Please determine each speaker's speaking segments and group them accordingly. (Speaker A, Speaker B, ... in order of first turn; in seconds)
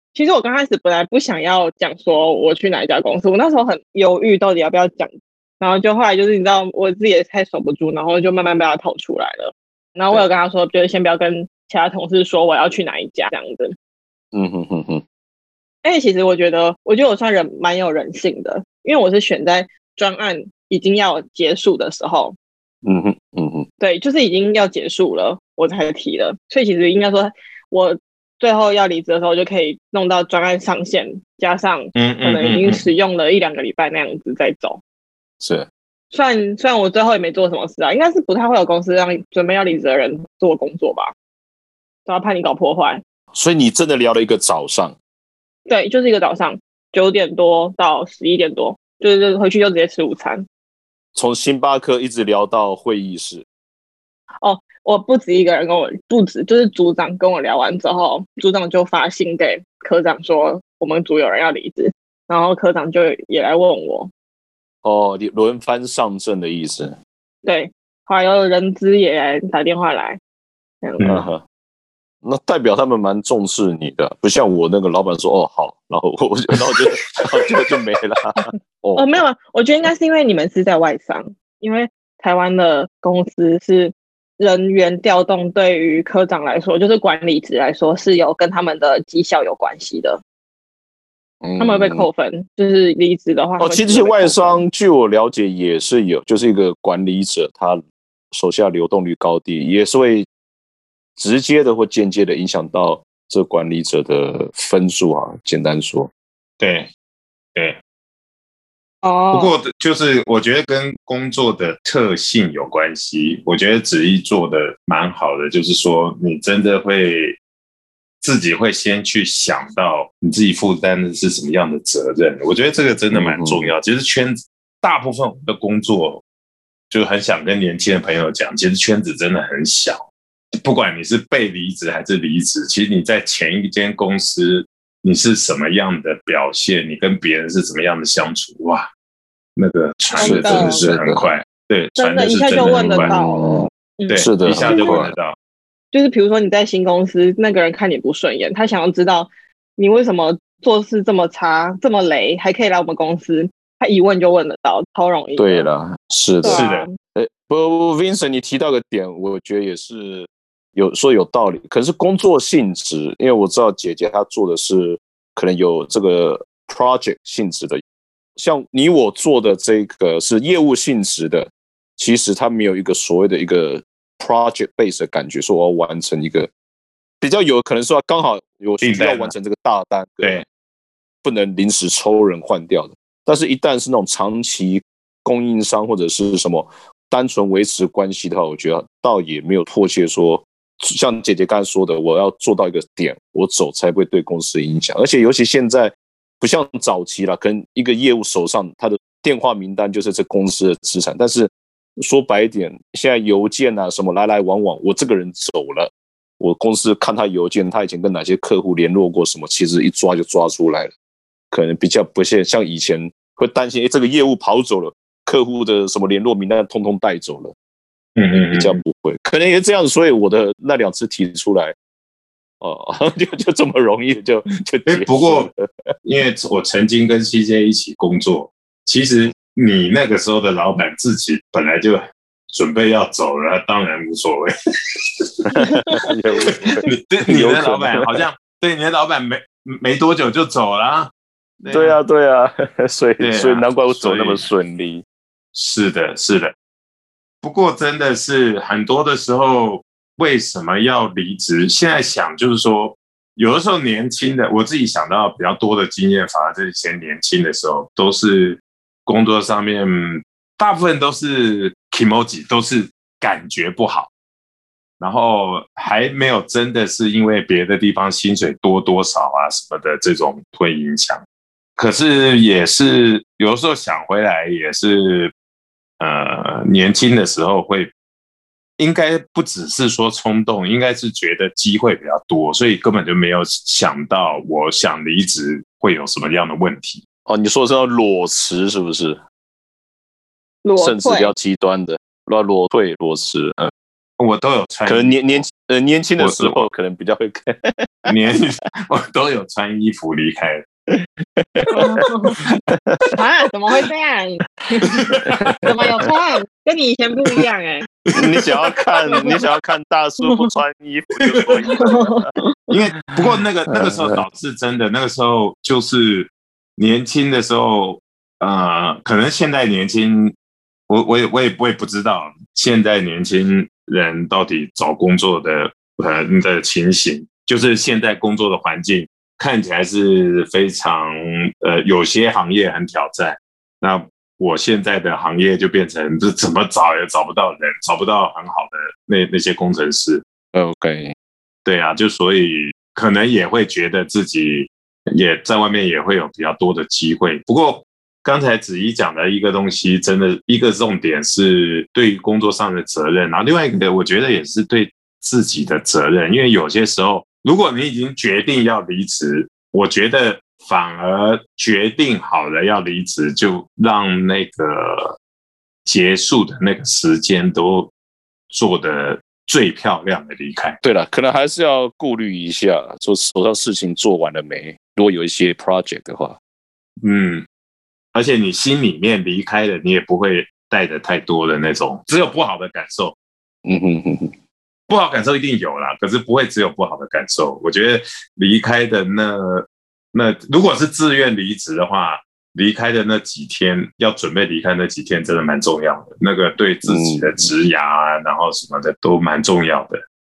Speaker A: 0.1-13.7, 15.8-22.4, 23.8-34.8, 36.1-41.1, 42.0-43.0, 45.6-50.4, 54.4-64.1, 67.4-70.2, 70.8-71.2, 78.9-90.2, 91.6-94.6, 109.0-109.5, 140.1-140.8, 142.0-145.0, 145.9-155.7, 156.4-156.9, 290.6-291.3, 301.7-302.4, 303.1-304.8, 305.6-307.8, 309.1-309.4, 311.6-312.5
Speaker B: 14.3-15.0, 22.8-23.6, 35.4-35.7, 43.3-44.9, 51.1-53.4, 64.8-66.9, 71.0-71.4, 72.2-79.2, 91.4-92.1, 93.6-97.8, 98.3-100.3, 101.2-106.1, 123.1-123.7, 140.2-141.3, 142.6-145.1, 155.4-167.8, 168.4-176.5, 177.2-180.4, 181.2-210.9, 211.5-217.5, 218.5-221.7, 222.6-225.7, 235.5-238.2, 241.7-245.0, 287.3-289.2, 290.8-293.7, 294.9-298.1, 300.9-303.0, 308.1-312.3, 313.7-314.2, 340.5-341.1, 370.8-376.4, 383.6-384.3, 396.9-397.4
Speaker C: 31.9-32.9, 106.6-106.9, 109.3-117.4, 118.2-126.2, 126.9-130.0, 130.6-138.9, 139.6-143.5, 144.1-145.3, 156.4-156.8, 178.8-179.3, 218.2-218.8, 224.8-225.5, 226.0-234.5, 236.7-242.0, 243.2-244.4, 245.5-246.5, 247.4-264.1, 265.0-271.2, 271.8-275.3, 276.0-277.9, 278.8-287.0, 294.2-295.4, 296.2-296.7, 298.1-300.6, 304.8-305.6, 308.1-308.6, 312.7-320.3, 320.9-340.2, 341.6-365.1, 365.8-367.9, 368.5-370.8, 377.0-377.4, 378.1-383.1, 384.9-400.0